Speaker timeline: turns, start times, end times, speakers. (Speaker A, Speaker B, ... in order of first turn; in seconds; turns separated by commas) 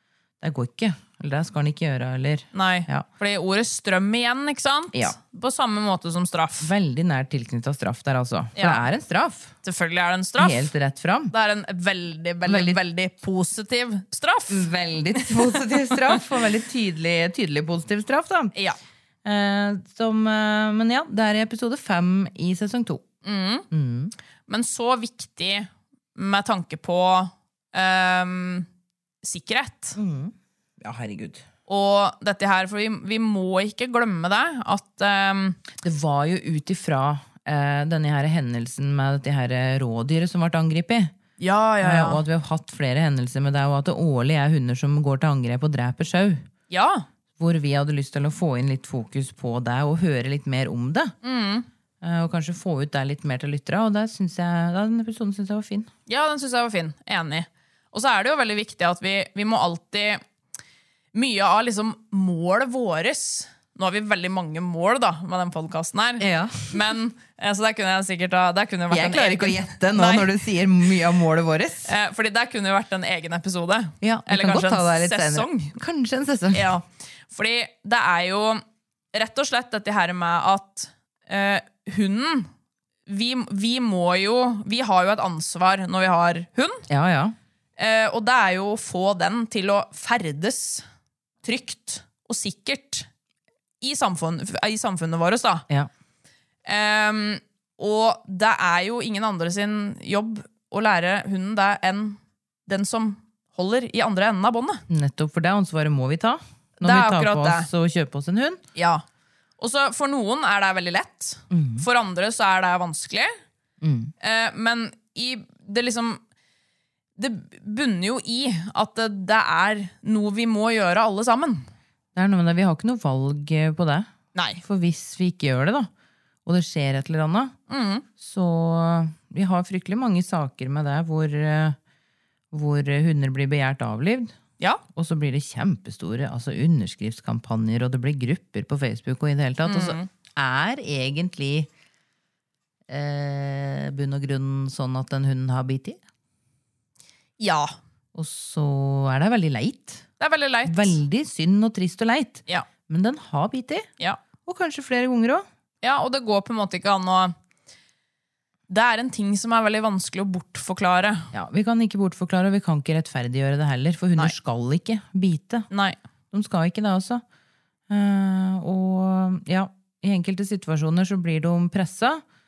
Speaker A: 0.4-3.1, Speaker B: 2.5-6.7, Speaker A: 6.6-9.5, Speaker B: 8.6-8.8, Speaker B: 9.6-10.7, Speaker A: 10.4-11.3, Speaker B: 11.3-16.2, Speaker A: 12.5-12.8, Speaker A: 14.5-18.5, Speaker A: 19.2-23.0, Speaker B: 23.2-23.7, Speaker A: 23.7-24.1, Speaker B: 24.5-28.7, Speaker B: 29.2-30.0, Speaker A: 30.0-31.4, Speaker B: 31.7-35.6, Speaker A: 35.8-41.1, Speaker B: 41.4-42.2, Speaker A: 41.8-46.5, Speaker B: 46.7-47.0, Speaker A: 47.4-51.1, Speaker B: 51.2-51.7, Speaker A: 52.0-55.9, Speaker B: 56.1-60.2, Speaker B: 61.1-70.3, Speaker A: 66.2-66.9, Speaker A: 68.9-71.9, Speaker B: 71.8-75.7, Speaker A: 74.0-76.7, Speaker B: 76.5-78.6, Speaker B: 79.1-82.5, Speaker B: 83.1-86.9, Speaker A: 86.9-87.4, Speaker B: 87.8-90.8, Speaker B: 91.4-93.1, Speaker B: 93.8-95.6, Speaker B: 96.7-104.8, Speaker A: 104.9-108.6, Speaker B: 106.8-107.7, Speaker B: 108.8-109.0, Speaker B: 109.6-113.3, Speaker A: 111.5-111.9, Speaker A: 113.8-114.1, Speaker B: 114.2-116.2, Speaker B: 117.2-121.7, Speaker A: 122.2-124.1, Speaker B: 124.3-124.6, Speaker A: 124.6-125.9, Speaker A: 126.5-127.5, Speaker B: 127.7-128.1, Speaker A: 128.2-131.8, Speaker A: 132.5-134.3, Speaker A: 134.9-141.7, Speaker B: 139.7-140.1, Speaker A: 142.9-146.0, Speaker B: 147.4-147.8, Speaker A: 148.2-150.1, Speaker B: 150.2-151.0, Speaker A: 150.7-153.9, Speaker A: 154.4-155.5, Speaker B: 155.8-157.3, Speaker B: 158.7-161.3, Speaker A: 161.3-165.7, Speaker B: 165.7-166.0, Speaker A: 166.3-167.2, Speaker A: 167.9-172.2